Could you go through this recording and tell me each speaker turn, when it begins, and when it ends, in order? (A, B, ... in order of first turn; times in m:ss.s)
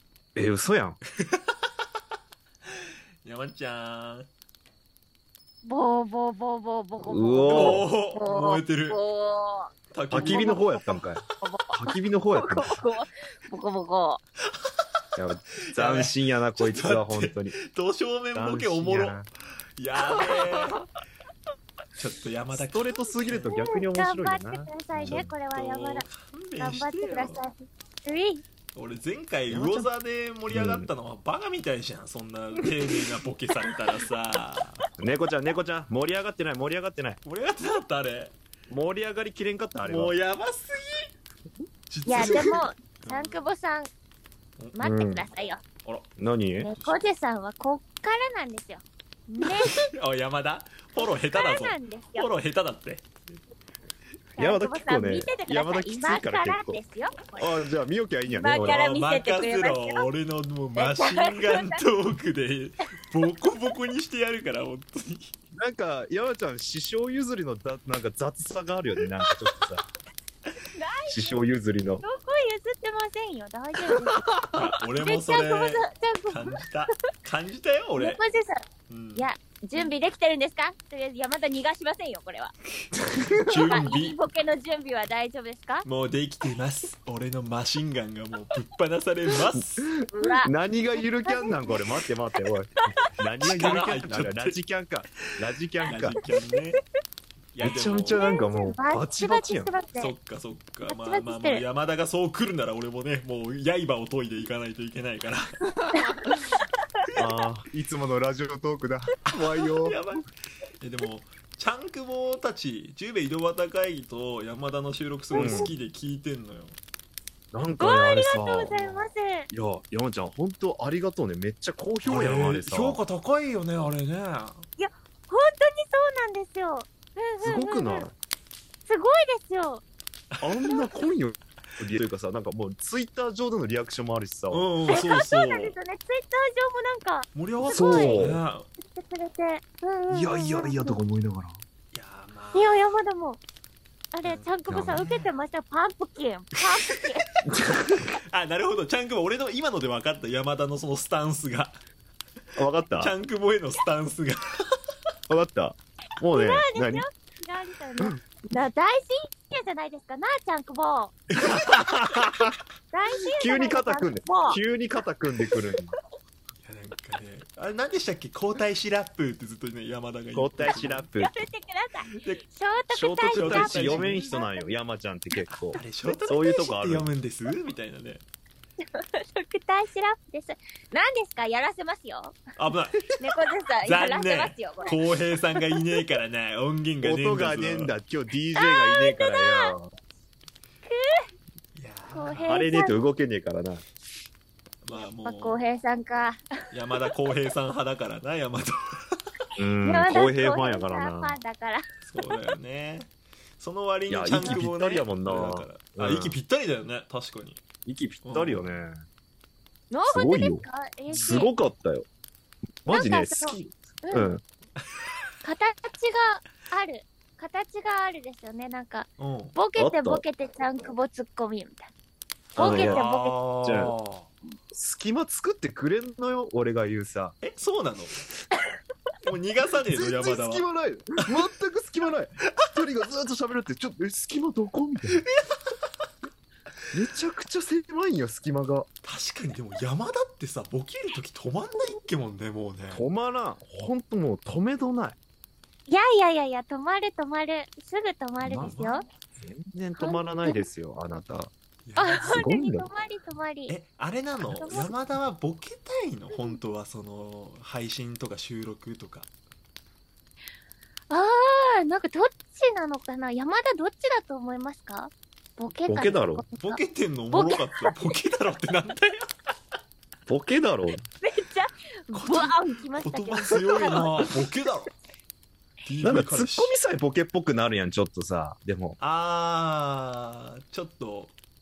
0:00.3-0:01.0 A
0:03.2-0:04.3 B
0:05.6-0:14.2 C
0:07.0-0:07.9 A
0:07.5-0:09.0 B
0:09.9-0:10.7 B
0:10.1-0:12.8 A
0:15.2-0:17.5 A
0:15.7-0:19.3 B
0:18.3-0:19.3 A
0:19.8-0:20.8 B
0:22.0-0:23.5 B
0:22.5-0:25.3 A
0:23.4-0:26.1 C
0:25.0-0:27.4 B
0:26.6-0:28.4 C
0:28.7-0:34.8 B
0:29.5-0:29.9 A
0:30.5-0:30.9 A
0:35.0-0:37.2 A
0:37.2-0:38.4 B
0:38.7-0:40.1 A
0:39.8-0:41.1 B
0:41.9-0:43.5 B
0:42.0-0:43.9 C
0:42.2-0:42.5 A
0:44.7-0:45.6 C
0:44.8-0:45.2 A
0:46.2-0:46.7 A
0:46.6-0:49.9 C
0:46.7-0:47.0 B
0:49.4-0:53.1 B
0:50.9-0:52.3 C
0:54.4-0:57.5 C
0:54.4-0:56.8 A
0:57.4-0:58.8 A
0:58.3-1:00.1 C
0:58.6-1:05.3 B
1:00.8-1:01.8 C
1:05.6-1:09.9 A
1:10.7-1:11.4 C
1:11.1-1:12.0 A
1:12.0-1:14.4 C
1:14.5-1:18.2 B
1:15.0-1:16.6 C
1:18.0-1:18.6 C
1:18.9-1:19.2 B
1:19.2-1:22.5 C
1:23.3-1:24.2 B
1:23.4-1:25.8 C
1:25.8-1:29.9 B
1:29.8-1:36.2 A
1:30.1-1:30.5 C
1:31.2-1:31.7 C
1:33.5-1:34.6 B
1:35.8-1:36.8 B
1:37.5-1:38.2 B
1:37.6-1:39.7 A
1:38.1-1:40.1 C
1:40.0-1:46.1 B
1:40.9-1:41.6 C
1:45.9-1:46.4 C
1:47.2-1:50.0 A
1:49.3-1:50.2 B
1:50.8-1:56.8 B
1:55.3-1:55.7 A
1:55.4-1:55.7 C
1:57.5-1:58.7 A
1:57.8-1:59.5 C
1:58.7-1:59.1 B
1:59.5-2:03.0 A
2:02.0-2:04.6 B
2:04.8-2:08.0 C
2:07.4-2:08.1 A
2:08.9-2:09.8 C
2:10.3-2:10.7 B
2:10.4-2:14.6 A
2:14.5-2:15.7 B
2:14.9-2:18.2 C
2:17.3-2:18.7 B
2:17.7-2:18.4 A
2:18.8-2:21.0 C
2:20.1-2:21.6 A
2:21.9-2:22.9 B
2:22.5-2:23.4 C
2:24.1-2:27.3 C
2:24.2-2:25.3 B
2:24.7-2:25.0 A
2:27.4-2:28.1 A
2:28.3-2:31.8 B
2:32.6-2:33.1 A
2:33.0-2:34.6 B
2:35.3-2:37.0 A
2:36.3-2:41.2 C
2:41.4-2:41.9 B
2:41.4-2:42.6 A
2:42.9-2:44.6 C
2:43.4-2:46.0 A
2:46.6-2:51.1 B
2:50.3-2:51.4 A
2:51.2-2:54.5 C
2:52.2-2:52.4 B
2:52.9-2:57.1 A
2:53.3-2:54.3 B
2:55.5-2:58.2 B
2:58.9-3:02.4 C
3:02.6-3:03.1 B
3:03.2-3:05.0 C
3:03.8-3:07.9 B
3:07.0-3:09.9 A
3:08.6-3:09.7 C
3:10.8-3:11.1 C
3:11.7-3:12.8 B
3:12.1-3:13.0 C
3:12.4-3:13.8 A
3:14.8-3:15.6 B
3:14.9-3:16.4 C
3:16.7-3:19.2 B
3:19.6-3:21.4 A
3:19.8-3:21.8 C
3:22.0-3:27.6 B
3:24.1-3:26.4 A
3:27.8-3:29.0 A
3:28.2-3:28.8 B
3:29.9-3:31.5 C
3:30.1-3:32.0 A
3:31.1-3:31.4 B
3:32.8-3:34.4 A
3:32.9-3:34.3 C
3:35.4-3:41.9 C
3:39.2-3:39.5 B
3:39.7-3:40.2 A
3:42.5-3:43.4 C
3:42.6-3:43.1 A
3:42.6-3:44.3 B
3:43.6-3:43.9 A
3:44.7-3:47.4 A
3:47.4-3:48.2 B
3:49.2-3:50.6 B
3:49.9-3:55.2 A
3:55.1-3:55.6 B
3:56.9-3:58.9 A
3:59.0-4:03.0 B
4:02.9-4:05.2 A
4:05.9-4:09.0 C
4:08.4-4:08.8 A
4:08.5-4:09.0 B
4:09.4-4:11.5 A
4:10.0-4:10.6 C
4:11.9-4:12.4 B
4:12.0-4:13.8 C
4:12.2-4:12.9 A
4:13.7-4:19.3 B
4:14.6-4:14.9 C
4:16.3-4:16.6 C
4:21.1-4:26.8 C
4:25.8-4:26.4 A
4:26.6-4:29.3 B
4:27.3-4:28.0 C
4:30.3-4:31.0 A
4:31.2-4:34.3 C
4:32.1-4:34.9 B
4:35.8-4:36.8 B
4:36.0-4:39.0 A
4:39.0-4:41.3 B